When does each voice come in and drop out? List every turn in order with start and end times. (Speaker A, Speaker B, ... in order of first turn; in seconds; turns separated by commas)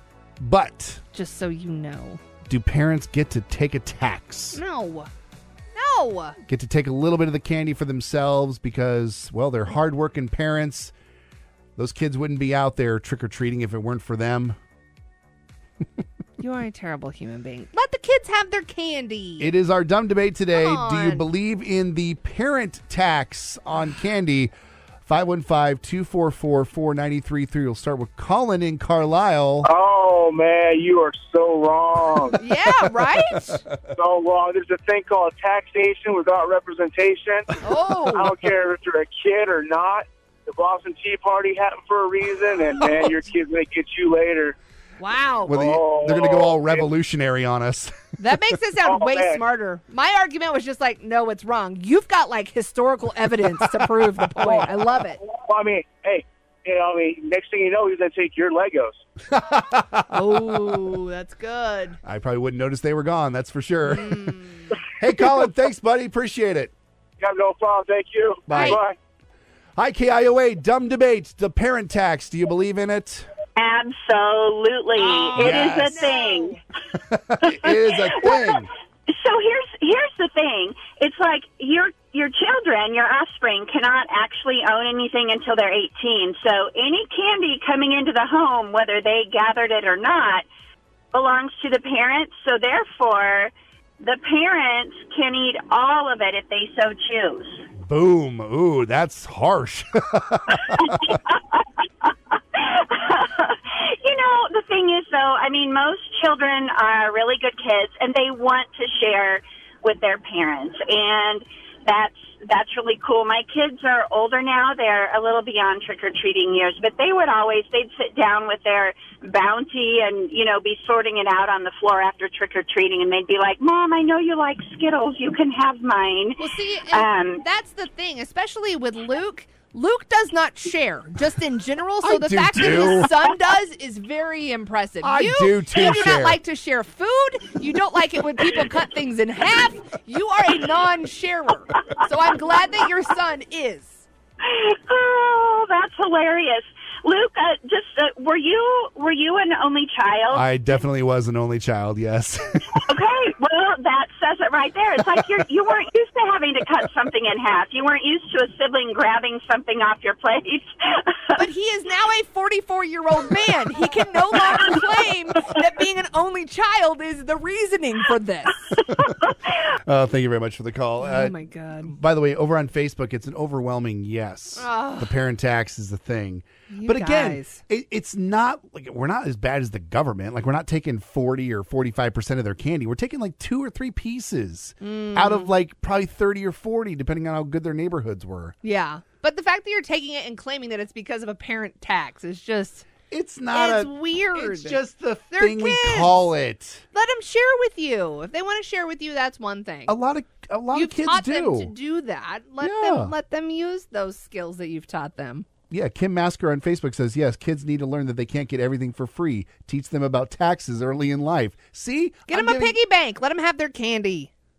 Speaker A: 0.4-1.0, Speaker B: 1.1-2.2, Speaker A: 2.5-4.6, Speaker B: 4.5-5.1, Speaker B: 5.7-6.4, Speaker A: 6.5-10.9, Speaker A: 11.8-14.6, Speaker B: 16.4-19.5, Speaker A: 19.4-24.5, Speaker B: 20.5-21.2, Speaker A: 25.1-29.7, Speaker C: 29.6-32.4, Speaker B: 32.4-33.6, Speaker A: 32.9-33.5, Speaker C: 33.9-37.5, Speaker B: 37.6-38.3, Speaker C: 38.1-44.5, Speaker B: 45.0-45.6, Speaker A: 45.5-48.0, Speaker C: 45.5-46.8, Speaker B: 48.2-55.2, Speaker C: 48.8-49.4, Speaker C: 55.3-59.0, Speaker A: 59.3-60.8, Speaker B: 60.1-62.0, Speaker A: 62.0-64.4, Speaker B: 63.9-64.7, Speaker A: 64.9-66.7, Speaker C: 67.2-69.0, Speaker A: 68.5-68.8, Speaker B: 68.5-68.8, Speaker A: 69.8-73.3, Speaker D: 73.5-76.5, Speaker B: 75.0-76.6, Speaker A: 75.4-75.9, Speaker A: 77.1-78.7, Speaker D: 77.4-90.4, Speaker D: 91.1-97.6, Speaker A: 97.8-101.0, Speaker D: 100.8-127.4, Speaker B: 126.4-144.1, Speaker A: 132.0-133.1, Speaker A: 135.0-136.4, Speaker D: 144.4-150.5, Speaker A: 150.3-152.7, Speaker D: 152.8-161.2, Speaker B: 161.3-168.8, Speaker A: 169.8-188.5, Speaker B: 171.0-171.9, Speaker B: 174.6-175.2, Speaker B: 176.7-177.6, Speaker B: 184.8-185.5, Speaker B: 188.6-192.8, Speaker A: 193.1-196.8, Speaker B: 193.5-196.3, Speaker B: 196.9-199.9, Speaker A: 199.9-201.7, Speaker B: 200.7-205.4, Speaker A: 202.6-203.1, Speaker A: 205.7-212.7, Speaker B: 212.3-214.3